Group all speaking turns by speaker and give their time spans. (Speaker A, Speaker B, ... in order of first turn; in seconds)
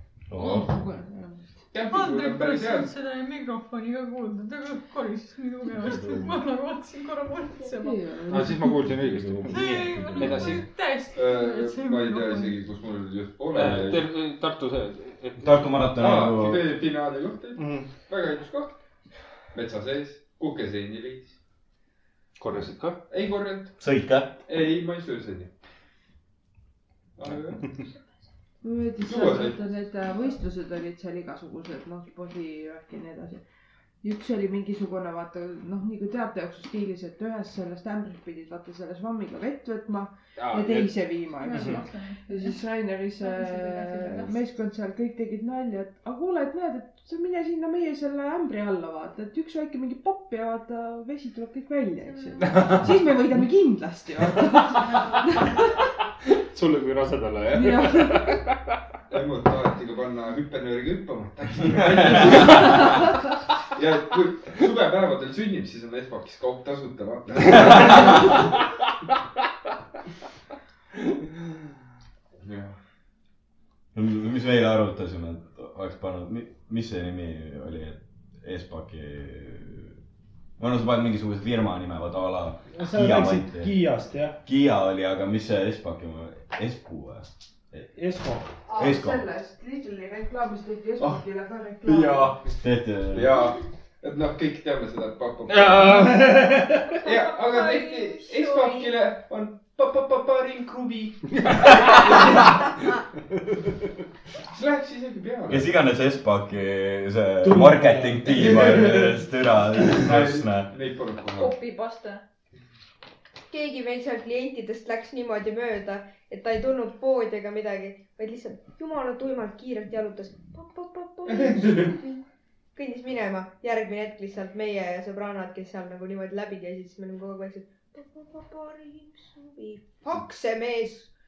Speaker A: 0.3-0.7, 15.4-16.7, 23.8-24.4, 73.9-79.9, 80.6-83.7, 84.4-87.9, 88.8-89.2, 92.6-93.4, 105.5-110.7
Speaker B: 0.3-1.6, 7.7-8.9, 28.6-33.4, 34.0-55.7, 57.5-58.4, 88.7-92.4
Speaker C: 1.7-2.9, 11.1-14.1, 15.9-18.7, 19.5-21.3, 23.1-23.7, 24.4-25.5, 27.2-27.6, 29.0-29.6, 59.1-63.1, 63.7-68.5, 72.4-72.7, 91.0-91.2, 91.8-92.5, 93.1-96.3, 97.0-102.5, 104.5-105.7, 108.3-109.1, 109.8-111.5, 121.3-122.0
Speaker D: 1.9-8.0, 9.5-12.6, 41.4-42.6, 43.2-44.4, 52.0-52.6, 97.0-99.0, 111.3-112.2
Speaker E: 5.8-6.3, 8.9-10.4, 82.7-84.4, 87.9-88.5, 96.1-96.8, 107.4-109.1
Speaker F: 8.3-10.6, 13.5-15.7, 17.6-17.9, 22.4-23.0, 40.4-41.8, 52.4-52.8, 56.3-58.6, 95.5-96.5, 101.6-101.9
Speaker G: 113.5-122.2, 122.7-131.1